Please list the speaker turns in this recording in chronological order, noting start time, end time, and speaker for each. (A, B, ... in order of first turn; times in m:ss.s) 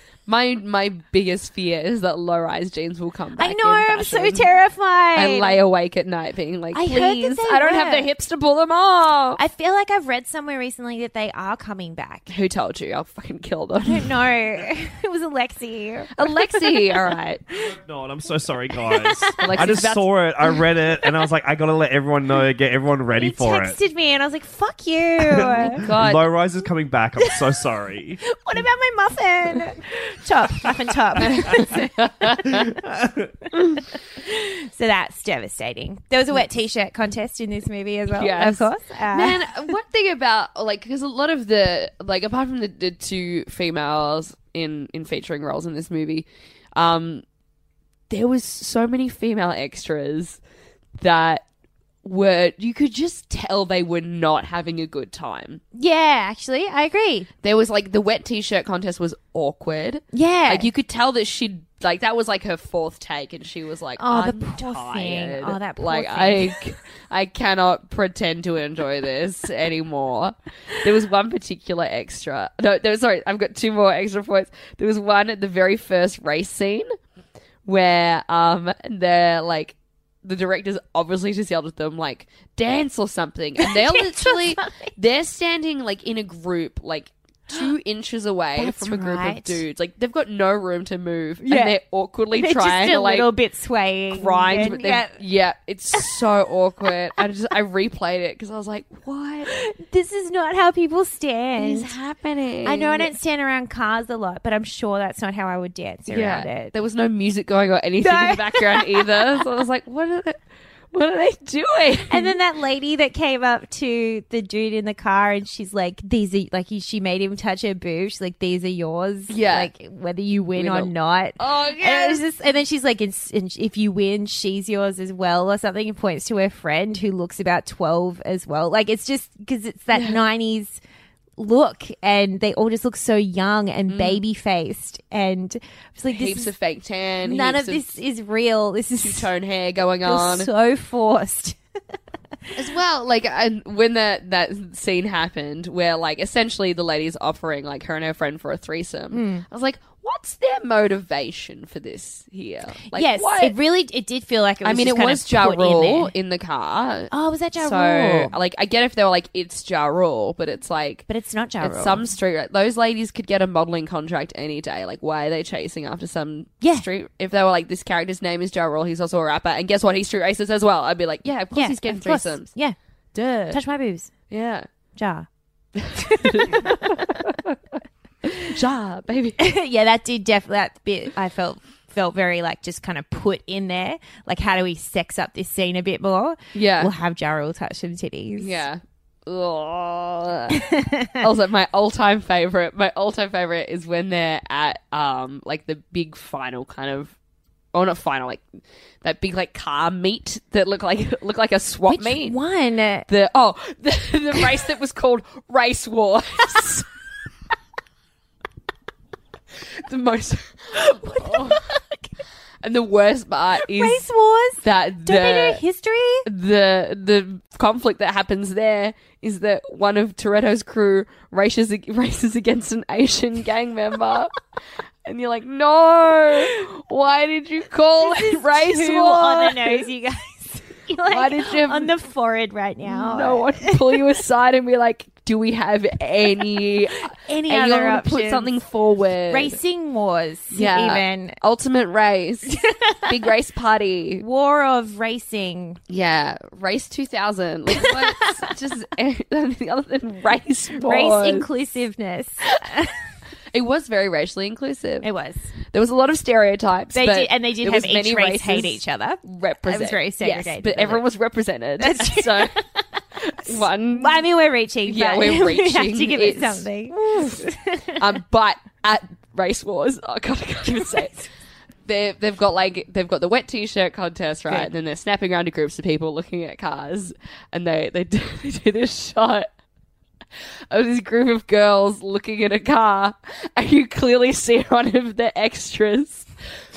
0:00.3-0:04.5 A
0:03.4-0:05.6 B
0:05.1-0:09.4 A
0:06.7-0:08.1 B
0:09.4-0:12.3 B
0:12.3-0:14.1 A
0:13.8-0:16.8 B
0:16.2-0:17.4 A
0:17.5-0:23.8 C
0:18.9-0:19.5 B
0:19.4-0:20.1 A
0:23.2-0:25.8 B
0:25.4-0:28.2 C
0:25.5-0:26.2 A
0:28.3-0:32.6 B
0:31.2-0:32.5 A
0:32.7-0:33.3 C
0:33.8-0:39.5 B
0:38.1-0:47.2 A
0:48.1-0:50.4 A
0:51.0-0:51.4 A
0:52.0-0:55.6 A
0:55.8-0:57.3 B
0:57.4-1:16.9 A
1:00.1-1:00.7 B
1:04.0-1:06.6 B
1:17.6-1:33.3 A
1:23.6-1:24.9 B
1:28.6-1:29.6 B
1:31.4-1:31.8 B
1:32.4-1:35.1 B
1:34.1-1:39.5 A
1:39.5-1:41.9 B
1:41.6-1:43.1 A
1:42.6-1:46.7 B
1:46.1-1:50.4 A
1:48.0-1:49.4 B
1:50.9-1:52.4 A
1:52.1-2:10.8 B
1:59.3-1:59.7 A
2:00.6-2:02.2 A
2:09.9-2:10.2 A
2:11.4-2:16.5 B
2:13.9-2:14.2 A
2:16.1-2:18.0 A
2:17.3-2:19.3 B
2:19.0-2:20.5 A
2:20.0-2:21.6 B
2:22.6-2:33.6 A
2:29.1-2:29.4 B
2:32.9-2:36.1 B
2:34.6-2:41.1 A
2:37.1-2:38.3 B
2:41.1-2:42.1 B
2:41.6-2:52.5 A
2:51.5-2:52.8 B
2:53.2-2:53.6 A
2:53.5-2:54.1 B
2:54.3-2:54.7 A
2:55.0-2:55.3 B
2:55.8-2:57.6 A
2:56.0-2:57.3 B
2:58.4-2:59.4 A
2:59.4-3:08.6 B
3:06.6-3:06.9 A
3:08.4-3:17.1 A
3:10.5-3:11.2 B
3:17.7-3:18.4 A
3:19.0-3:22.4 A
3:21.9-3:23.1 B
3:23.1-3:26.9 A
3:29.8-3:31.6 A
3:30.8-3:32.1 B
3:32.6-3:34.1 A
3:33.7-3:36.2 B
3:34.6-3:35.6 A
3:36.2-3:44.4 A
3:45.1-3:49.9 A
3:48.0-3:54.0 B
3:51.1-3:51.9 A
3:52.8-3:59.6 A
3:57.1-3:58.5 B
3:59.3-4:01.4 B
4:00.5-4:04.2 A
4:02.5-4:03.1 B
4:04.2-4:05.8 B
4:05.9-4:11.5 A
4:07.8-4:08.2 B
4:10.8-4:13.0 B
4:13.5-4:15.1 A
4:15.0-4:15.5 B
4:15.7-4:22.6 A
4:16.9-4:21.0 B
4:21.8-4:22.7 B
4:23.3-4:24.3 A
4:23.4-4:28.0 B
4:24.8-4:31.3 A
4:31.9-4:39.5 A
4:40.7-4:46.3 A